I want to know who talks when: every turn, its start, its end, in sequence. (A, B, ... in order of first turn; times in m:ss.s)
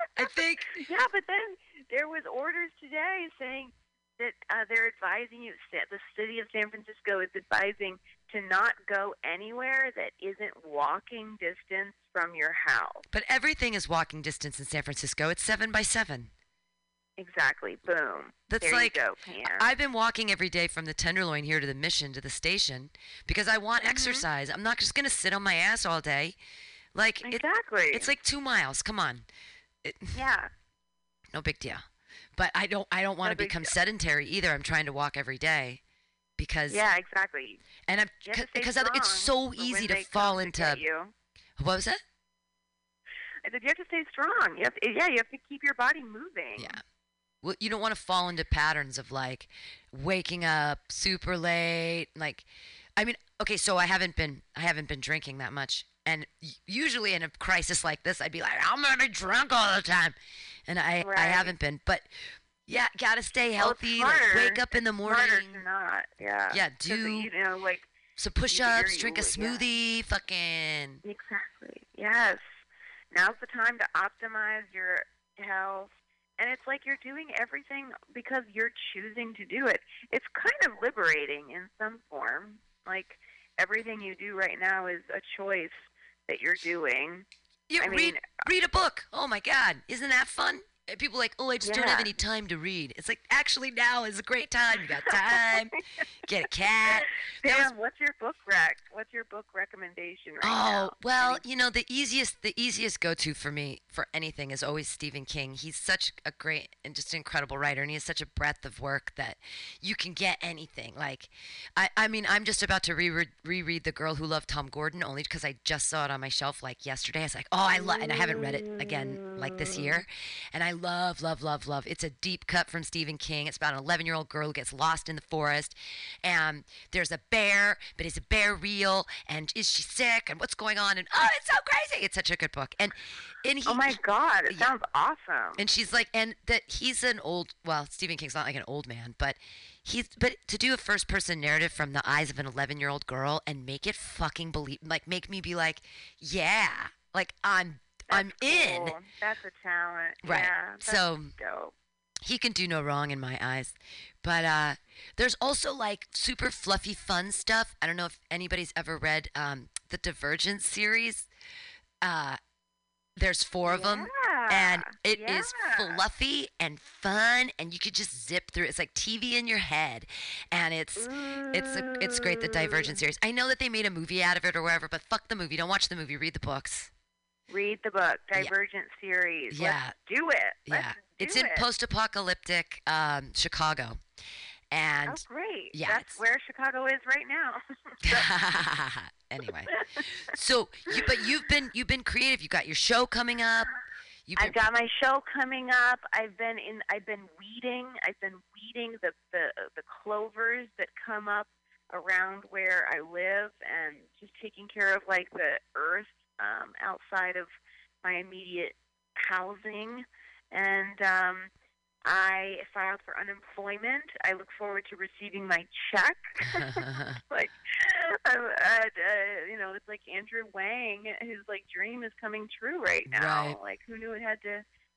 0:00.2-0:00.8 A
0:00.2-0:13.0 B
0:13.1-0:16.3 A
0:17.2-0:19.7 B
0:18.5-0:26.4 A
0:23.8-0:24.2 B
0:26.9-0:29.2 A
0:27.2-0:28.1 B
0:29.8-0:30.2 A
0:30.1-0:30.5 B
0:31.3-0:35.8 A
0:33.2-0:33.8 B
0:36.4-0:36.8 A
0:36.7-0:37.6 B
0:37.9-0:40.8 A
0:38.2-0:41.1 B
0:41.6-0:42.0 A
0:43.4-0:46.8 B
0:46.6-0:46.8 A
0:47.4-1:00.2 A
1:00.7-1:02.1 A
1:01.0-1:01.6 B
1:02.7-1:05.6 A
1:03.6-1:07.9 B
1:06.5-1:07.3 A
1:08.2-1:11.0 A
1:08.5-1:09.6 B
1:11.0-1:12.4 B
1:13.1-1:27.2 B
1:27.7-1:35.7 A
1:27.8-1:28.5 B
1:31.6-1:32.1 B
1:34.8-1:35.8 B
1:36.3-1:37.7 A
1:36.8-1:41.4 B
1:40.4-2:14.0 A
1:57.7-2:00.0 B
2:13.6-2:15.6 B
2:15.6-2:29.0 A
2:28.1-2:31.7 B
2:30.2-2:31.3 A
2:32.2-2:41.3 A
2:42.0-2:42.4 A
2:43.2-2:56.9 A
2:43.6-2:46.0 B
2:51.0-2:53.0 B
2:57.5-3:01.7 B
2:59.5-3:00.0 A
3:00.7-3:04.0 A
3:04.7-3:06.2 A
3:05.0-3:08.3 B
3:08.0-3:09.7 A
3:09.4-3:10.0 B
3:10.3-3:13.7 A
3:10.9-3:11.2 B
3:14.3-3:14.6 A
3:14.4-3:27.5 B
3:28.0-3:31.5 B
3:32.0-3:44.6 B
3:36.6-3:37.2 A
3:43.1-3:43.6 A